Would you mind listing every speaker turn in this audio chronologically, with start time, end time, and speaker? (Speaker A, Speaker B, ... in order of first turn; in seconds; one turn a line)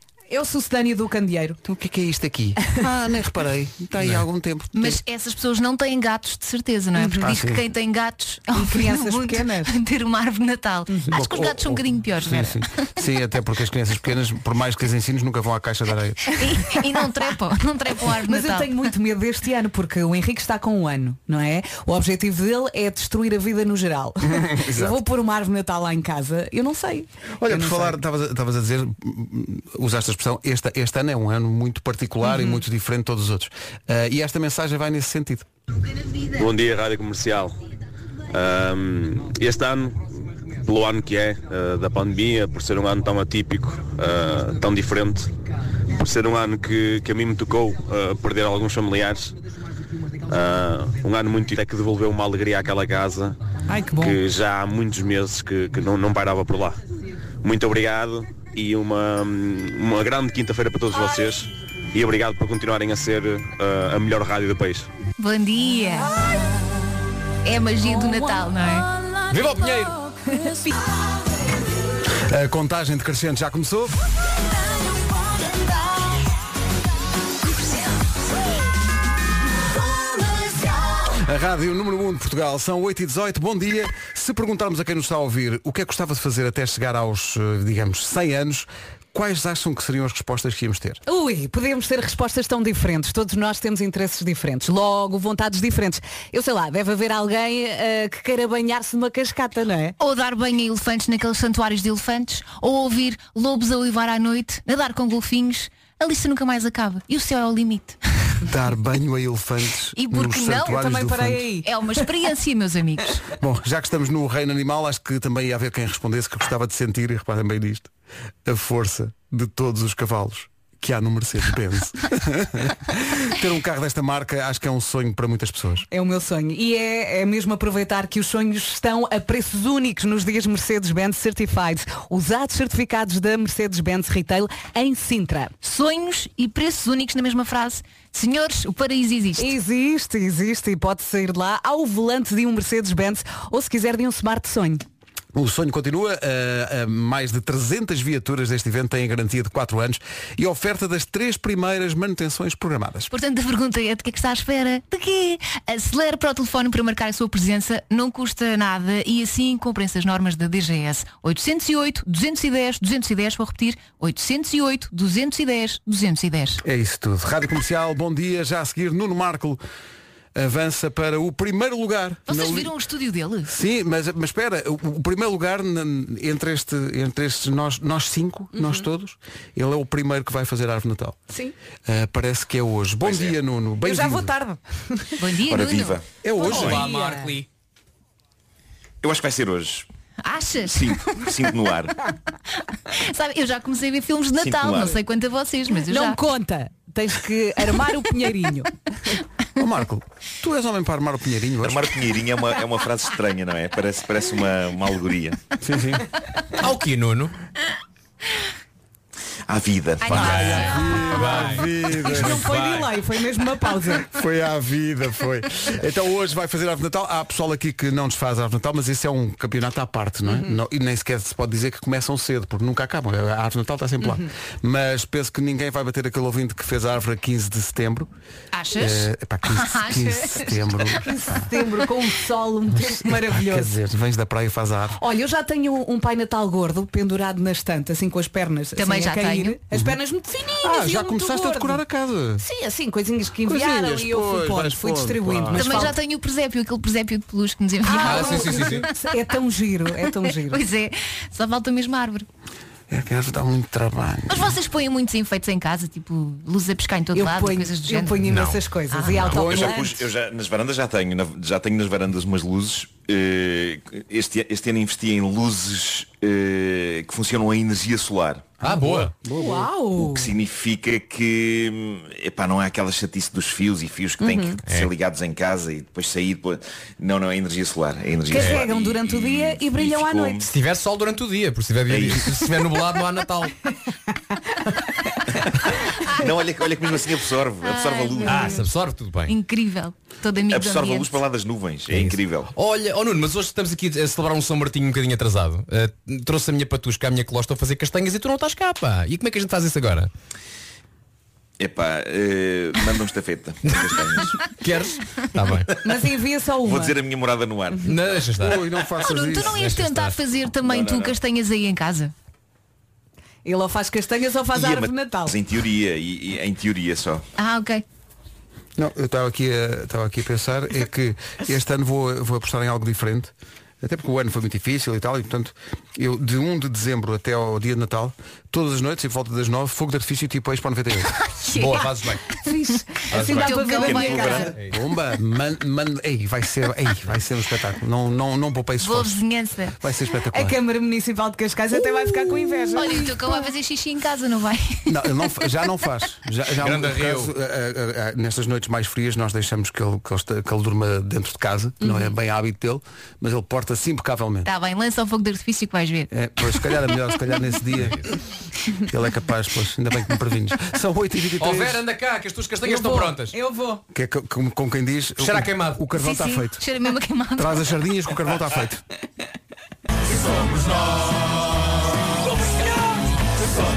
Speaker A: 0.3-1.6
Speaker B: 1.6-5.0
Speaker C: 4.7-12.7
Speaker A: 7.0-7.3
Speaker B: 7.2-7.6
Speaker A: 8.5-9.7
Speaker A: 10.9-11.1
Speaker B: 11.1-16.3
Speaker C: 16.3-18.9
Speaker A: 18.2-28.0
Speaker B: 24.2-25.0
Speaker B: 27.4-35.4
Speaker A: 32.2-32.6
Speaker D: 36.3-37.5
Speaker D: 38.3-40.1
Speaker D: 40.6-45.3
Speaker D: 45.9-49.3
Speaker D: 50.3-53.4
Speaker A: 53.7-54.2
Speaker D: 54.0-56.8
Speaker D: 57.4-64.9
Speaker C: 65.2-66.2
Speaker C: 67.4-68.9
Speaker E: 69.3-70.0
Speaker B: 72.3-74.0
Speaker B: 81.1-91.0
Speaker A: 91.0-100.0
Speaker C: 100.0-108.0
Speaker B: 108.5-111.4
Speaker C: 110.0-110.8
Speaker A: 110.6-112.0
Speaker C: 111.6-113.2
Speaker B: 113.4-117.9
Speaker B: 118.4-125.9
Speaker A: 125.9-135.5
Speaker C: 135.6-139.5
Speaker A: 139.4-144.8
Speaker B: 145.3-153.1
Speaker C: 153.1-166.6
Speaker B: 166.6-169.6
Speaker B: 170.3-172.7
Speaker C: 172.3-173.5
Speaker B: 173.4-181.2
Speaker A: 178.5-178.8
Speaker B: 181.8-184.3
Speaker F: 183.0-183.4
Speaker A: 183.8-185.2
Speaker C: 185.2-186.0
Speaker F: 185.4-186.1
Speaker B: 186.2-186.8
Speaker A: 186.4-187.3
Speaker E: 186.4-187.4
Speaker F: 189.0-189.8
Speaker C: 190.2-191.4
Speaker F: 190.7-191.9
Speaker C: 192.9-196.2
Speaker F: 194.4-195.0
Speaker A: 195.9-198.7
Speaker B: 199.6-201.9
Speaker F: 201.6-205.4
Speaker B: 205.6-206.0
Speaker E: 206.6-207.3
Speaker F: 209.5-210.6
Speaker C: 210.0-211.4
Speaker B: 210.1-212.5
Speaker E: 210.2-212.9
Speaker A: 212.0-214.1
Speaker B: 214.0-228.1
Speaker A: 224.0-224.3
Speaker C: 228.5-230.9
Speaker B: 228.8-231.4
Speaker A: 231.0-233.7
Speaker B: 232.7-235.0
Speaker A: 235.0-241.8
Speaker C: 238.8-239.6
Speaker B: 240.6-242.4
Speaker A: 242.4-245.9
Speaker B: 243.4-245.9
Speaker C: 245.5-248.9
Speaker A: 247.8-250.6
Speaker E: 248.0-248.9
Speaker C: 250.4-252.2
Speaker B: 252.9-254.5
Speaker C: 254.3-258.3
Speaker A: 257.1-260.0
Speaker E: 258.3-258.6
Speaker C: 258.9-259.3
Speaker F: 259.3-268.6
Speaker B: 259.4-259.7
Speaker E: 268.6-269.1
Speaker B: 268.6-269.7
Speaker A: 269.4-270.3
Speaker F: 270.0-280.5
Speaker A: 274.2-274.6
Speaker A: 278.3-280.4
Speaker E: 278.4-278.6
Speaker E: 280.4-283.5
Speaker F: 281.9-282.4
Speaker F: 286.1-288.5
Speaker C: 287.6-288.7
Speaker E: 288.2-289.3
Speaker C: 289.3-291.2
Speaker F: 290.5-292.5
Speaker E: 291.9-300.1
Speaker F: 301.6-304.4
Speaker E: 304.4-305.7
Speaker A: 305.8-307.0
Speaker F: 306.6-308.3
Speaker E: 307.8-308.6
Speaker B: 308.4-309.6
Speaker C: 309.0-312.1
Speaker E: 309.4-310.1
Speaker F: 310.6-311.2
Speaker A: 313.4-315.4
Speaker F: 314.5-317.2
Speaker C: 317.4-317.8
Speaker B: 318.8-331.1
Speaker C: 331.1-331.9
Speaker E: 331.5-332.2
Speaker A: 332.4-334.5
Speaker E: 333.1-333.6
Speaker C: 333.2-334.6
Speaker F: 333.8-334.5
Speaker B: 334.7-339.2
Speaker C: 338.8-339.8
Speaker B: 339.8-340.6
Speaker A: 340.3-343.1
Speaker C: 342.7-344.9
Speaker B: 344.9-354.5
Speaker E: 346.6-347.3
Speaker A: 351.8-352.1
Speaker C: 354.4-356.1
Speaker B: 356.1-358.0
Speaker B: 358.9-361.8
Speaker E: 361.4-363.3
Speaker A: 362.6-363.8
Speaker B: 363.9-366.6
Speaker E: 365.2-365.8
Speaker C: 365.9-367.6
Speaker B: 367.4-368.8